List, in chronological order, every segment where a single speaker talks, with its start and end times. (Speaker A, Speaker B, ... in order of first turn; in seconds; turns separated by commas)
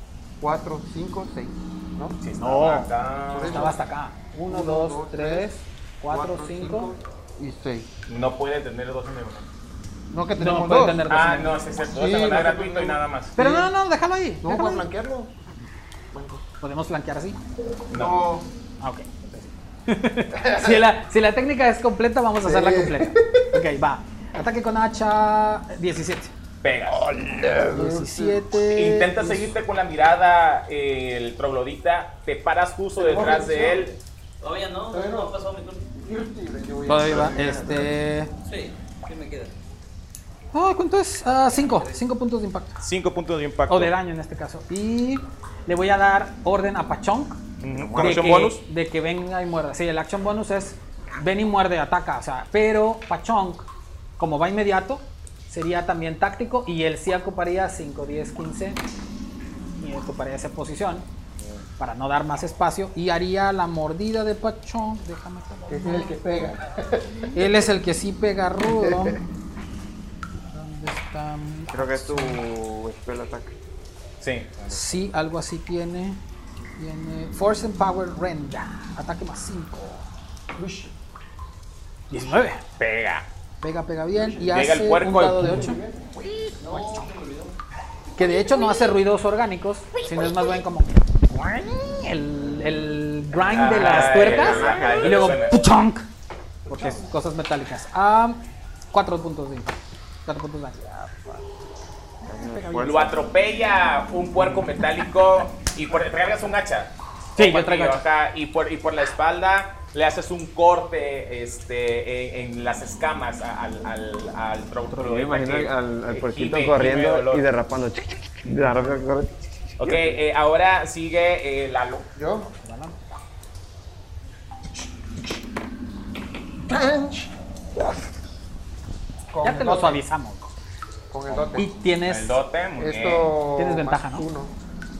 Speaker A: 0.4-2.2, Speaker B: 2.2-3.7, Speaker C: 2.4-2.9, Speaker A: 3.3-3.8, Speaker C: 3.5-6.9, Speaker A: 4.5-5.5, Speaker A: 6.1-7.9, Speaker B: 8.1-9.5, Speaker A: 10.1-11.1, Speaker C: 10.4-11.6, Speaker B: 11.1-13.3, Speaker A: 11.9-13.7, Speaker C: 13.4-14.8, Speaker A: 14.4-15.3, Speaker A: 16.1-16.4, Speaker C: 16.6-17.4, Speaker B: 17.9-18.2, Speaker A: 17.9-18.5, Speaker C: 18.8-26.3, Speaker A: 20.3-20.8, Speaker A: 22.4-23.6, Speaker B: 26.6-27.0, Speaker A: 26.9-28.4, Speaker C: 27.7-29.5, Speaker B: 28.6-33.9, Speaker A: 33.0-34.0, Speaker D: 34.4-35.9, Speaker A: 34.9-35.4, Speaker A: 35.9-37.9, Speaker C: 36.9-38.3, Speaker D: 38.4-39.5, Speaker C: 40.5-42.8, Speaker D: 41.5-42.0, Speaker B: 42.8-43.9, Speaker C: 43.7-47.4, Speaker B: 47.6-48.6, Speaker E: 47.7-48.4, Speaker C: 48.0-58.8, Speaker C: 59.8-61.1, Speaker C: 61.8-66.2, Speaker A: 65.7-67.3, Speaker C: 67.3-69.2, Speaker A: 68.8-69.2, Speaker C: 70.5-72.4, Speaker E: 71.7-73.5, Speaker B: 74.2-75.0, Speaker C: 74.7-76.2, Speaker C: 76.8-80.0, Speaker A: 80.5-80.9, Speaker C: 82.1-82.6, Speaker B: 82.1-83.2, Speaker C: 83.6-85.8, Speaker A: 84.1-84.5, Speaker B: 84.5-85.8, Speaker A: 85.4-87.5, Speaker C: 86.7-87.1, Speaker C: 88.2-96.1, Speaker A: 88.2-88.7, Speaker A: 90.0-90.6, Speaker B: 93.5-95.6, Speaker E: 93.7-95.4, Speaker A: 96.7-97.0, Speaker C: 96.7-101.1, Speaker E: 102.2-103.2, Speaker C: 102.2-103.0, Speaker B: 102.8-117.4, Speaker C: 104.4-105.0, Speaker C: 107.3-108.0, Speaker E: 115.0-120.1, Speaker B: 119.8-122.1, Speaker A: 122.1-122.5, Speaker C: 122.5-123.0, Speaker A: 126.6-128.0, Speaker A: 129.3-130.0, Speaker C: 129.4-130.5, Speaker A: 131.1-131.7, Speaker C: 131.5-132.4, Speaker B: 132.1-133.3, Speaker A: 132.8-134.5, Speaker C: 133.6-134.3